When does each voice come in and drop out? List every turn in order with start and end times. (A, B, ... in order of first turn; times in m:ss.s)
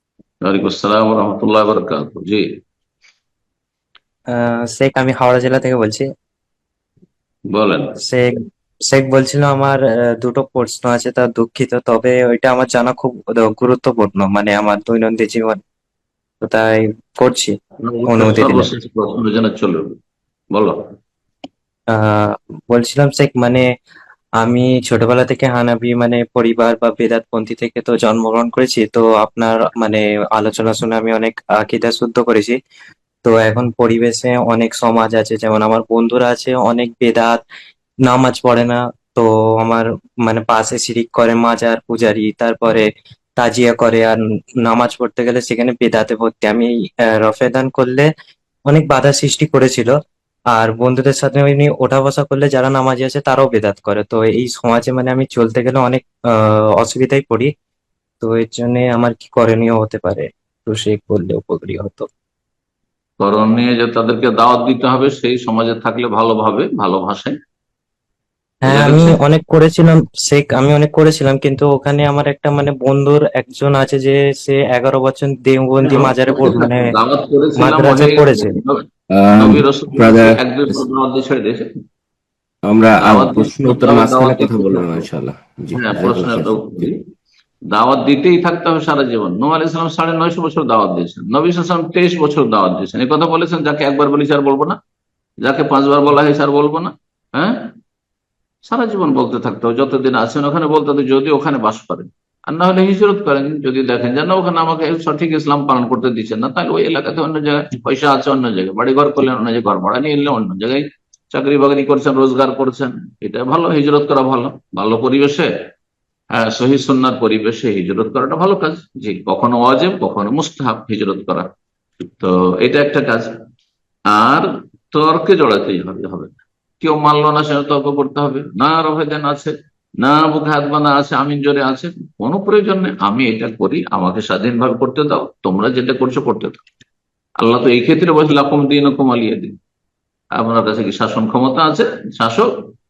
0:00.4-0:02.4 A
0:04.4-0:06.1 B
0:07.5-0:08.0 A
0:08.0-0:15.6 B
0:16.4-0:17.6 B
0:17.8-0:20.0 A
0:18.1-0:18.7 B
0:20.5-0:20.8 A
0:22.0-0:23.6 B
0:24.4-0:32.6 B
0:33.2-0:37.4 B
0:38.1-0:48.1 B
0:48.7-0:50.0 B
0:50.5-0:57.5 B
0:58.2-1:02.1 B
1:03.2-1:07.4 A
1:08.6-1:16.9 B
1:08.7-1:09.2 A
1:15.8-1:18.8 A
1:17.6-1:18.6 B
1:19.1-1:20.4 C
1:19.4-1:21.7 A
1:22.7-1:26.9 C
1:23.0-1:25.1 A
1:25.7-1:27.0 A
1:27.7-1:34.8 A
1:35.4-1:37.7 A
1:38.7-1:55.5 A
1:56.4-2:01.5 A
2:02.2-2:03.3 A
2:04.1-2:16.7 A
2:17.4-2:19.6 A
2:20.4-2:22.5 A